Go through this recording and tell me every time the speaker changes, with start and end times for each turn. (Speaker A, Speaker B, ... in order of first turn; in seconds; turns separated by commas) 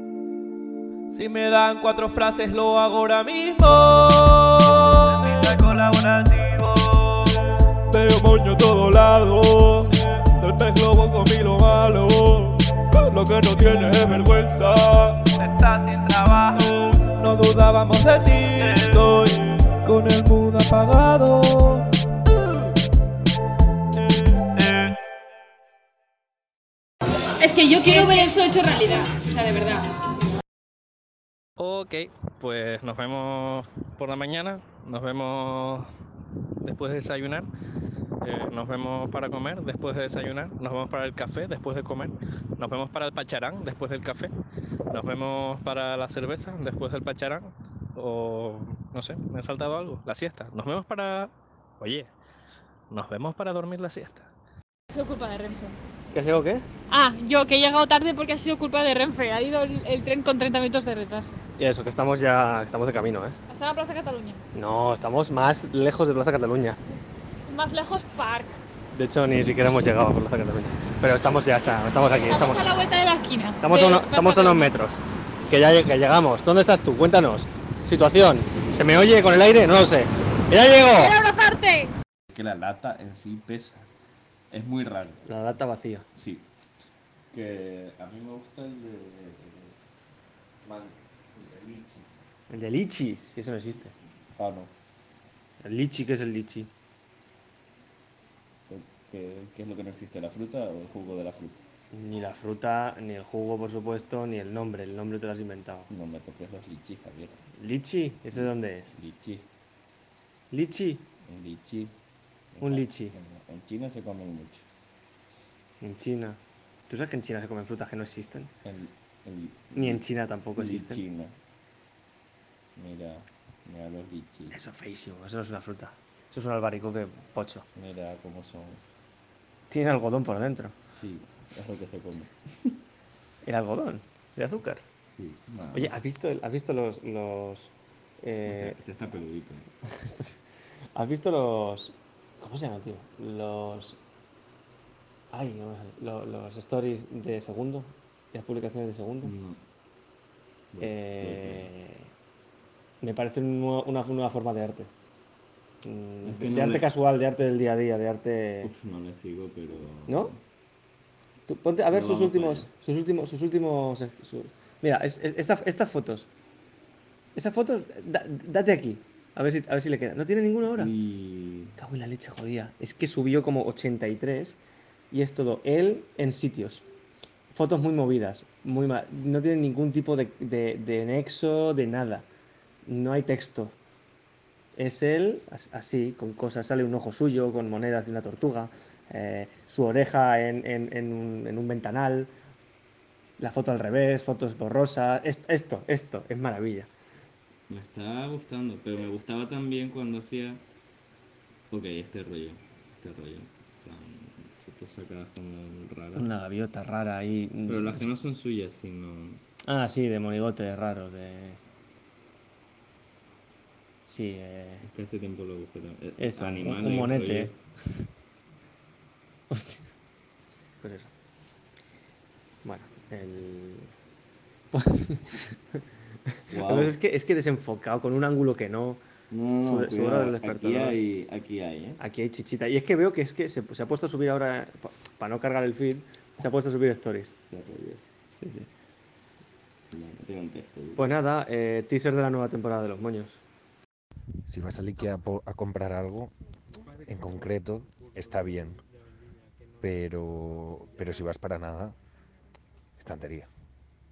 Speaker A: 1.1-7.1, Speaker A: 7.9-21.8, Speaker B: 27.4-29.8, Speaker C: 31.6-35.9, Speaker C: 36.6-37.5, Speaker C: 38.2-44.3, Speaker C: 44.9-52.1, Speaker C: 52.9-54.3, Speaker B: 54.9-55.7, Speaker D: 56.1-56.6, Speaker B: 56.9-61.3, Speaker D: 61.6-63.4, Speaker B: 63.5-64.4, Speaker D: 64.5-66.8, Speaker B: 67.5-68.6, Speaker D: 68.9-72.8, Speaker B: 72.3-74.7, Speaker D: 73.6-81.2, Speaker B: 80.8-81.9, Speaker E: 82.3-83.9, Speaker E: 84.5-85.2, Speaker D: 85.2-86.1, Speaker E: 86.2-86.5, Speaker E: 87.3-89.8, Speaker E: 90.6-92.2, Speaker D: 92.5-93.9, Speaker E: 94.4-94.7, Speaker D: 95.6-96.7, Speaker E: 98.7-101.6, Speaker D: 101.9-105.9, Speaker E: 105.9-107.5, Speaker D: 107.5-109.0, Speaker E: 108.3-109.5, Speaker D: 110.5-111.1, Speaker E: 111.2-112.0, Speaker E: 112.5-114.7, Speaker D: 112.6-113.2, Speaker D: 115.8-118.5, Speaker E: 118.6-121.3, Speaker D: 119.8-121.0, Speaker E: 122.8-124.6, Speaker D: 124.5-127.7, Speaker E: 127.8-128.8, Speaker D: 129.7-130.7, Speaker E: 130.9-132.8, Speaker D: 133.4-134.8, Speaker E: 135.1-135.9, Speaker D: 135.7-138.8, Speaker E: 138.4-139.7, Speaker D: 139.9-140.3, Speaker D: 140.9-144.0, Speaker D: 145.3-149.3, Speaker E: 149.2-149.6, Speaker E: 150.7-151.7, Speaker D: 150.8-152.1, Speaker D: 153.0-154.9, Speaker D: 155.8-158.7, Speaker E: 156.2-156.9, Speaker E: 158.6-160.4, Speaker D: 160.1-160.3, Speaker D: 161.5-166.3, Speaker E: 161.9-162.7, Speaker D: 167.3-170.9, Speaker E: 170.7-171.8, Speaker D: 171.8-174.6, Speaker D: 175.1-176.9, Speaker D: 177.5-182.2, Speaker D: 182.8-183.8, Speaker D: 184.7-192.3, Speaker D: 193.4-196.9, Speaker E: 197.7-200.7, Speaker E: 201.7-206.3, Speaker D: 206.1-208.1, Speaker E: 207.7-209.4, Speaker D: 209.6-211.6, Speaker D: 214.1-214.9, Speaker E: 214.8-217.6, Speaker D: 216.2-217.5, Speaker D: 219.5-219.9, Speaker D: 220.8-221.1, Speaker D: 222.6-223.9, Speaker D: 224.7-225.5, Speaker D: 226.3-229.0, Speaker E: 226.5-226.9, Speaker E: 229.3-232.0, Speaker D: 229.6-231.0, Speaker D: 232.0-237.3, Speaker E: 237.5-238.1, Speaker D: 238.3-238.7, Speaker E: 239.9-241.2, Speaker D: 240.9-243.4, Speaker F: 244.5-246.3, Speaker F: 247.1-248.8, Speaker F: 249.8-251.9, Speaker F: 253.0-253.5